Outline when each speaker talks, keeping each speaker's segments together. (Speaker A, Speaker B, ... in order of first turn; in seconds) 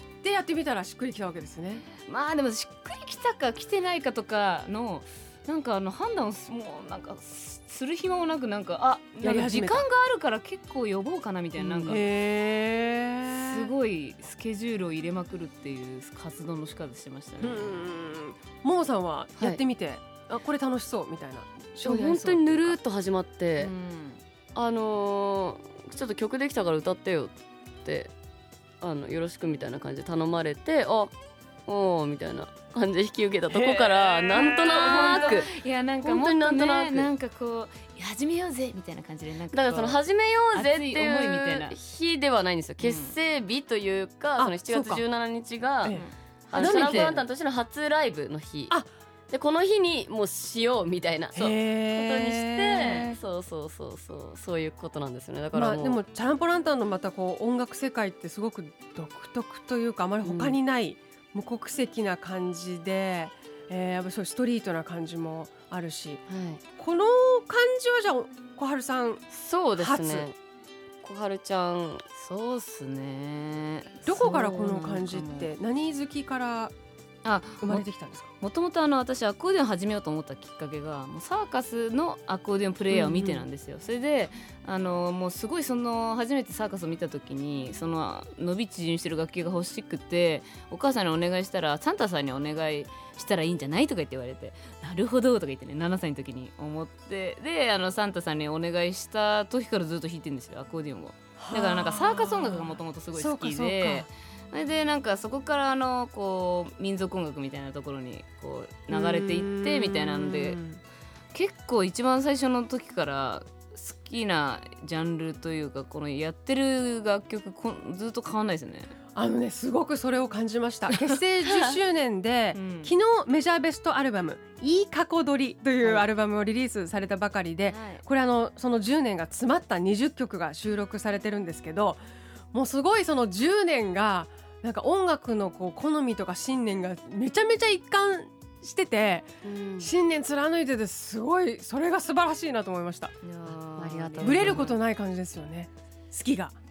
Speaker A: 0.2-1.9, 9.2-9.9, 11.9-13.7, 17.4-22.8, 34.9-35.2, 44.4-45.0, 45.8-47.2, 51.4-53.2, 55.5-66.2, 66.8-69.2, 69.8-70.3, 74.0-76.7, 77.6-78.3, 82.9-83.5, 101.4-104.1, 108.9-110.8, 119.2-132.0, 132.5-143.1, 144.2-146.6
Speaker B: 2.0-12.1, 13.3-17.8, 23.6-24.2, 33.5-40.0, 40.5-41.8, 42.8-43.1, 45.9-47.2, 72.2-75.5, 77.2-77.8, 78.4-110.6, 111.3-118.9, 122.5-123.0, 127.7-128.0, 143.2-144.8
Speaker C: 11.6-12.0, 21.8-23.7, 24.6-28.1, 28.8-31.1, 31.7-37.1, 39.5-46.0, 46.5-48.8, 49.3-56.0, 60.2-60.6, 66.3-66.6, 69.3-70.4, 71.0-72.0, 74.2-74.9, 139.4-139.9, 143.8-144.7